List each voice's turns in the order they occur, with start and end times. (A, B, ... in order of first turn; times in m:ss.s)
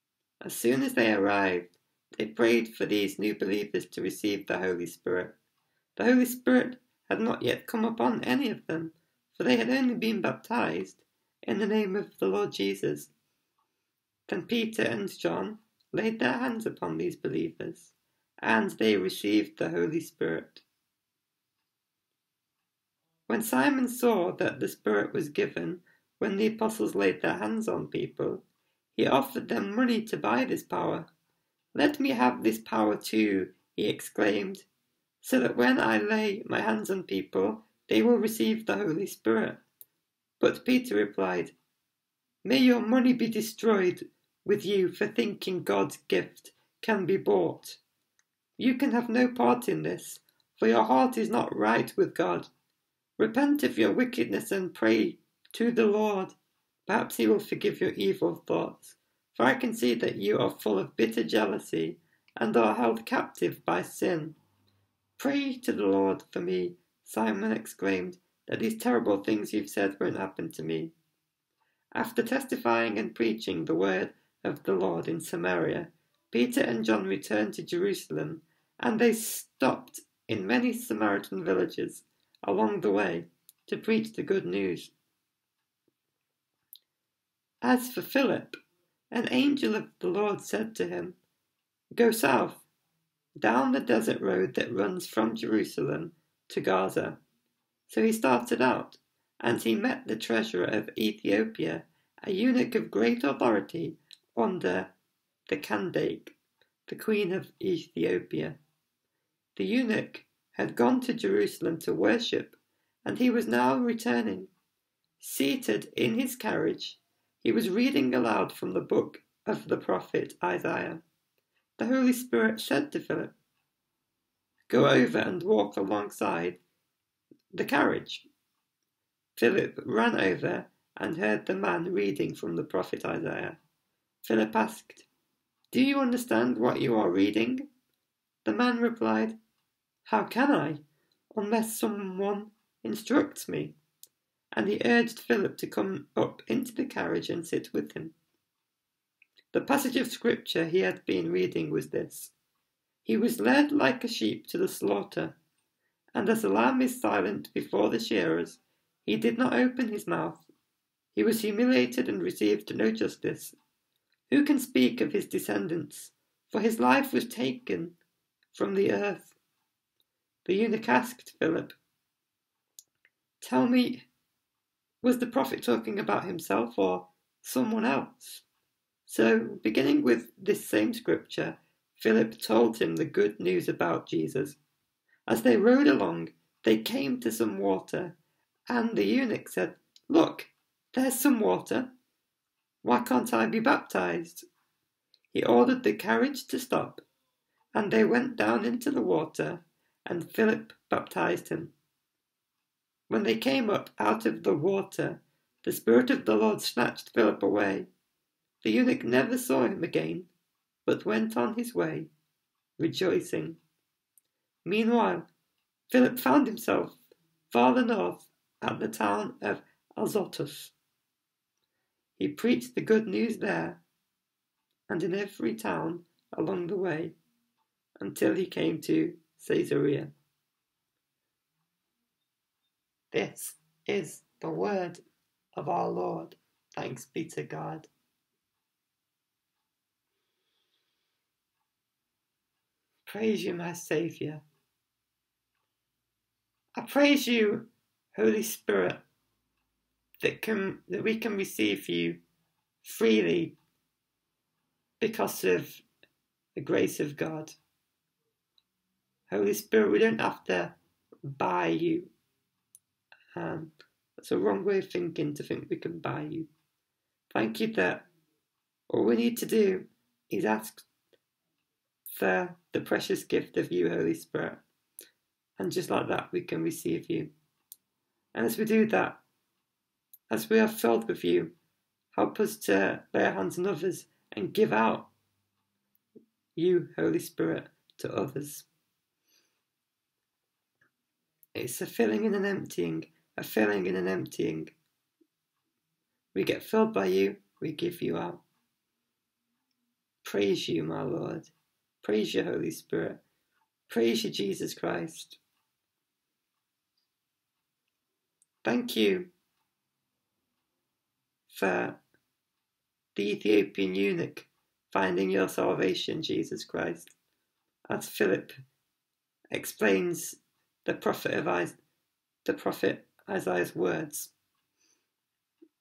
0:00.4-0:05.4 A
0:06.0-0:13.1 A
0:14.3-0:20.6 A
0:23.3-0:28.4 A
0:29.0-0:31.1 A
0:31.8-0:34.7 A
0:35.2-0:39.6 A
0:40.4-0:41.6 A
0:42.4-0:47.8 A
0:48.6-0:52.5 A
0:53.2-0:56.4 A
0:56.9-1:04.4 A
1:05.2-1:10.9 A
1:12.0-1:24.9 A
1:27.6-1:28.6 A
1:29.1-1:31.2 A
1:31.9-1:32.6 A
1:33.4-1:37.2 A
1:37.9-1:44.9 A
1:45.5-1:48.6 A
1:49.6-1:54.5 A
1:55.2-2:01.0 A
2:01.8-2:03.3 A
2:04.7-2:06.6 A
2:07.5-2:08.3 A
2:09.4-2:13.6 A
2:14.2-2:15.1 A
2:15.7-2:17.7 A
2:18.4-2:19.4 A
2:20.1-2:20.8 A
2:21.3-2:23.8 A
2:24.5-2:28.2 A
2:29.5-2:32.3 A
2:33.0-2:35.4 A
2:36.2-2:40.4 A
2:41.1-2:43.6 A
2:44.3-2:48.0 A
2:48.5-2:49.4 A
2:50.4-2:51.8 A
2:53.4-2:54.1 A
2:55.0-2:58.5 A
2:59.1-3:04.6 A
3:05.3-3:08.2 A
3:08.7-3:11.9 A
3:12.8-3:14.4 A
3:15.3-3:17.0 A
3:17.8-3:21.7 A
3:23.1-3:27.9 A
3:28.6-3:30.3 A
3:30.9-3:32.1 A
3:32.8-3:33.6 A
3:34.6-3:35.3 A
3:35.9-3:40.7 A
3:42.2-3:43.8 A
3:44.9-3:47.2 A
3:48.0-3:50.1 A
3:53.1-3:55.0 A
3:55.5-3:57.9 A
4:03.1-4:04.4 A
4:06.8-4:09.0 A
4:10.2-4:12.2 A
4:12.8-4:13.6 A
4:15.0-4:15.8 A
4:16.6-4:17.6 A
4:19.3-4:22.1 A
4:23.4-4:26.5 A
4:27.3-4:28.1 A
4:28.9-4:30.9 A
4:32.1-4:34.6 A
4:35.6-4:37.3 A
4:38.3-4:39.2 A
4:40.3-4:41.5 A
4:42.1-4:45.1 A
4:46.6-4:48.7 A
4:51.6-4:54.8 A
4:56.3-4:58.4 A
5:00.2-5:03.2 A
5:03.9-5:05.4 A
5:08.6-5:09.3 A
5:11.5-5:12.0 A
5:13.2-5:17.1 A
5:17.9-5:18.5 A
5:19.5-5:21.8 A
5:22.4-5:24.3 A